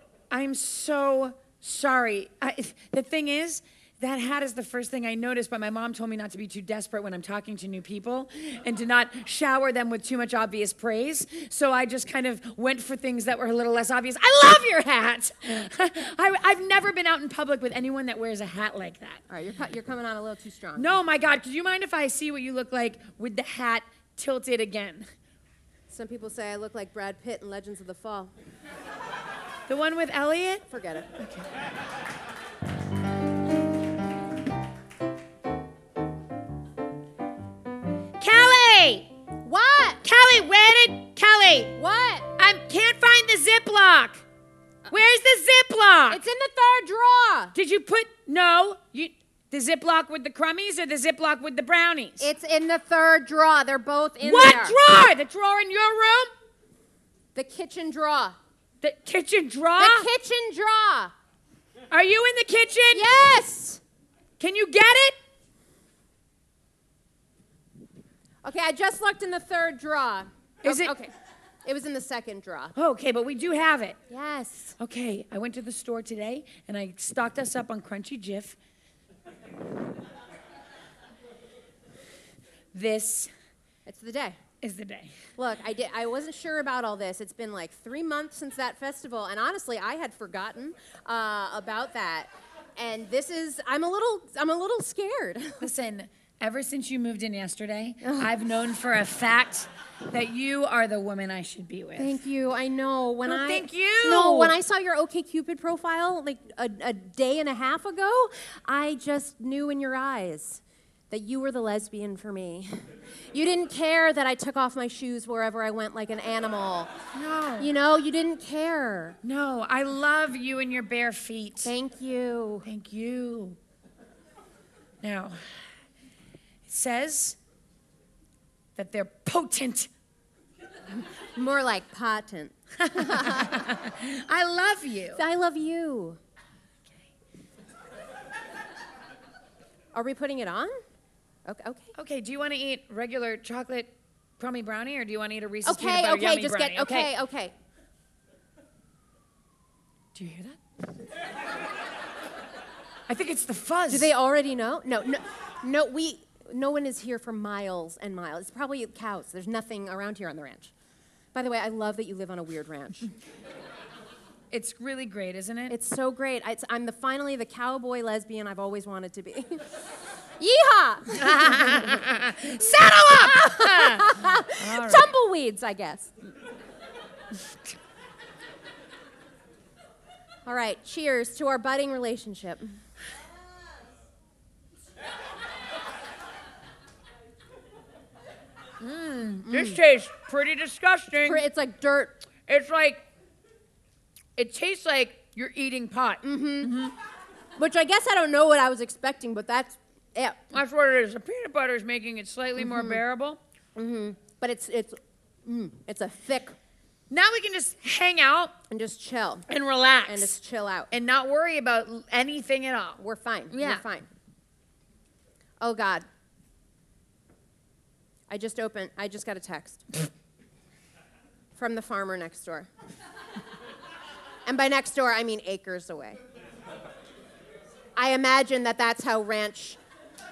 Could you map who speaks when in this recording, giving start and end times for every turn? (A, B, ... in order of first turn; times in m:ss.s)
0:00.3-0:19.2 A
0:19.3-0:20.9 B
0:20.8-0:25.1 A
0:25.9-0:28.3 B
0:29.7-0:30.6 A
0:30.7-0:31.1 B
0:31.2-0:31.5 A
0:38.2-0:39.1 A
0:39.4-0:40.0 B
0:40.0-0:41.7 A
0:41.8-0:42.3 B
0:42.4-0:44.2 A
0:44.9-0:46.2 A
0:46.1-0:47.5 B
0:47.5-0:52.3 A
0:52.2-0:54.8 B
0:54.2-0:56.3 A
0:57.3-0:58.4 B
0:58.8-1:00.1 A
0:59.8-1:01.1 B
1:01.9-1:03.1 A
1:02.9-1:03.8 B
1:04.4-1:05.1 A
1:08.4-1:11.1 B
1:10.6-1:10.9 A
1:11.6-1:12.7 B
1:12.7-1:14.0 A
1:14.1-1:14.8 B
1:14.8-1:18.6 A
1:22.7-1:23.3 A
1:23.8-1:24.4 B
1:24.6-1:25.1 A
1:25.4-1:35.7 B
1:35.6-1:42.2 A
1:38.0-1:38.3 B
1:42.0-1:52.7 B
1:43.2-1:44.6 A
1:53.3-1:56.9 B
1:57.1-1:57.7 A
1:57.6-1:59.2 B
1:59.2-2:01.7 A
2:01.6-2:02.7 B
2:02.6-2:03.6 A
2:05.0-2:05.4 A
2:06.6-2:07.4 A
2:08.8-2:09.9 A
2:11.3-2:13.6 B
2:12.8-2:15.2 A
2:15.1-2:16.2 B
2:19.9-2:20.7 B
2:21.4-2:21.9 B
2:21.9-2:27.1 A
2:25.6-2:27.5 B
2:30.1-2:30.6 A
2:33.1-2:34.1 A
2:33.9-2:40.7 B
2:41.3-2:43.1 B
2:44.5-2:45.8 A
2:45.7-2:49.6 B
2:50.4-2:52.0 B
2:51.2-2:55.1 A
2:52.6-2:56.1 B
3:00.4-3:02.8 B
3:08.8-3:11.4 A
3:09.5-3:09.8 B
3:11.2-3:12.2 B
3:12.5-3:13.0 A
3:14.4-3:16.9 A
3:16.2-3:16.7 B
3:17.6-3:20.5 B
3:20.5-3:23.4 A
3:22.6-3:23.0 B
3:23.8-3:26.6 B
3:27.1-3:28.5 A
3:28.7-3:29.4 B
3:29.5-3:30.4 A
3:30.1-3:30.9 B
3:30.9-3:33.8 A
3:33.0-3:34.1 B
3:35.6-3:36.0 B
3:38.3-3:39.9 B
3:41.6-3:42.7 B
3:44.4-3:46.2 B
3:48.0-3:49.8 B